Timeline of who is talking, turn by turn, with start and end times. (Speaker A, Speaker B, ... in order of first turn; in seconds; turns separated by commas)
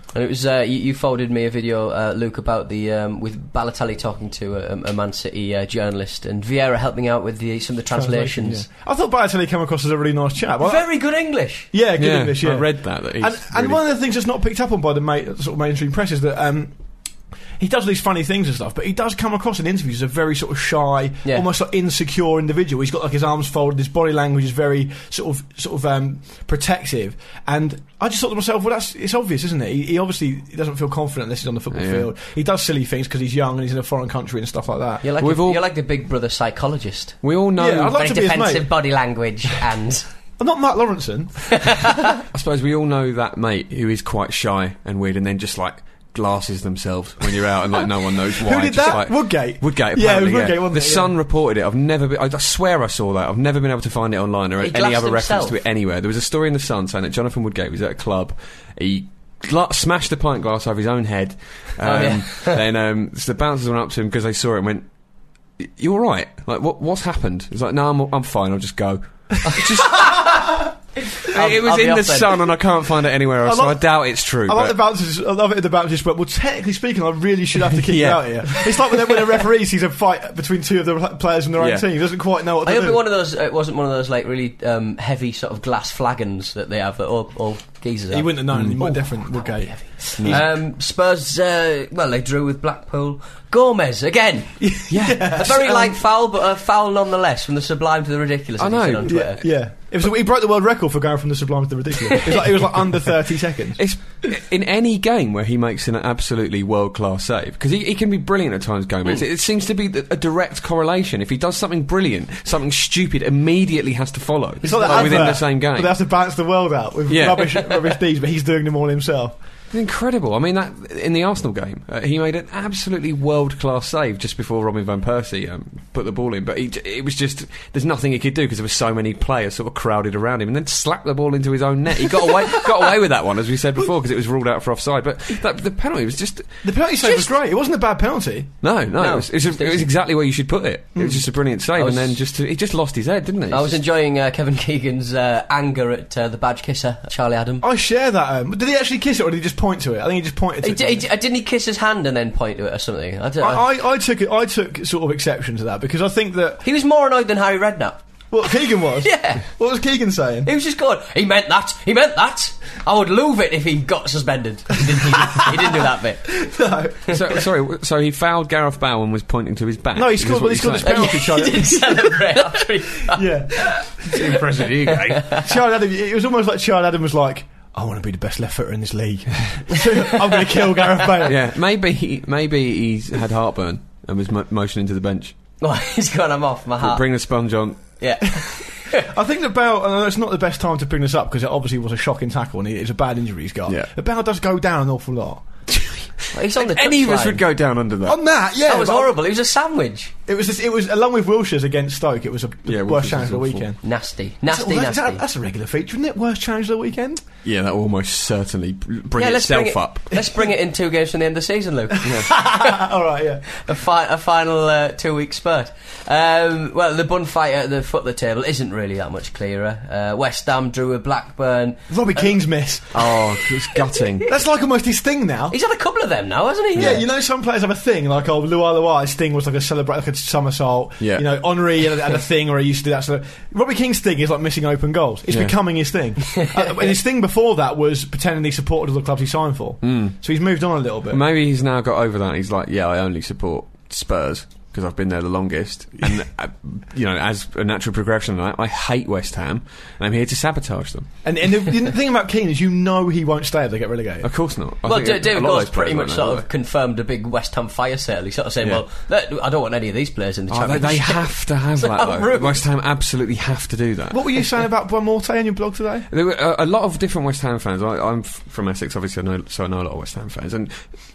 Speaker A: 0.1-8.7, Speaker B: 7.9-10.8, Speaker A: 10.6-11.7, Speaker B: 11.7-16.7, Speaker C: 12.0-13.8, Speaker B: 17.6-35.0, Speaker C: 31.7-32.1, Speaker A: 35.0-37.2, Speaker C: 35.2-35.6, Speaker C: 37.2-38.0, Speaker B: 37.5-38.7, Speaker A: 37.9-40.1, Speaker B: 40.4-41.9, Speaker C: 42.3-64.9, Speaker B: 48.4-51.1, Speaker A: 54.6-55.5, Speaker A: 61.8-62.6, Speaker C: 65.6-70.5, Speaker A: 69.5-70.3, Speaker C: 71.2-74.8, Speaker A: 71.2-72.4, Speaker B: 73.4-83.0, Speaker C: 77.8-78.9, Speaker C: 81.6-81.8, Speaker A: 82.6-99.4, Speaker B: 88.1-90.4, Speaker C: 90.2-90.4, Speaker B: 94.6-96.0, Speaker C: 94.9-95.6, Speaker C: 98.6-99.5, Speaker B: 99.0-103.8, Speaker C: 103.8-115.9, Speaker A: 114.6-115.3, Speaker B: 114.6-119.3, Speaker C: 117.1-117.7, Speaker C: 119.7-136.7, Speaker B: 136.6-138.5, Speaker C: 138.6-143.8, Speaker A: 139.0-139.9, Speaker B: 140.9-141.2, Speaker A: 141.8-142.2, Speaker A: 143.5-147.6, Speaker B: 147.6-151.1, Speaker A: 150.6-153.6, Speaker B: 153.4-156.6, Speaker A: 156.6-158.0, Speaker B: 158.3-160.5, Speaker A: 159.0-159.4, Speaker A: 160.4-166.3, Speaker B: 166.3-167.4, Speaker C: 167.1-171.2, Speaker B: 169.9-172.2, Speaker A: 170.8-173.3, Speaker B: 173.1-174.3, Speaker C: 174.1-175.3, Speaker A: 174.9-175.4, Speaker B: 175.4-181.4, Speaker C: 181.2-185.3, Speaker A: 185.6-187.0, Speaker C: 186.8-187.9, Speaker A: 188.0-189.0, Speaker B: 188.9-195.4, Speaker C: 193.7-193.9, Speaker C: 195.7-198.2, Speaker A: 196.3-197.4, Speaker B: 198.1-199.1, Speaker A: 198.7-200.1, Speaker B: 200.3-203.8, Speaker C: 202.7-203.7, Speaker A: 203.8-205.2, Speaker B: 204.4-207.2, Speaker C: 207.4-210.2, Speaker A: 209.2-212.7, Speaker C: 212.0-212.3, Speaker B: 212.0-213.5, Speaker A: 213.5-222.3, Speaker B: 221.9-223.1, Speaker C: 222.9-224.3, Speaker B: 224.2-225.6, Speaker A: 225.5-227.0, Speaker B: 226.8-241.2, Speaker C: 231.0-231.3, Speaker C: 235.3-235.6, Speaker C: 239.8-240.2, Speaker C: 241.1-251.1, Speaker B: 251.2-254.3, Speaker C: 254.2-256.4, Speaker A: 254.8-261.3, Speaker C: 260.5-264.3, Speaker A: 261.8-262.5, Speaker B: 264.1-266.1, Speaker C: 266.1-270.8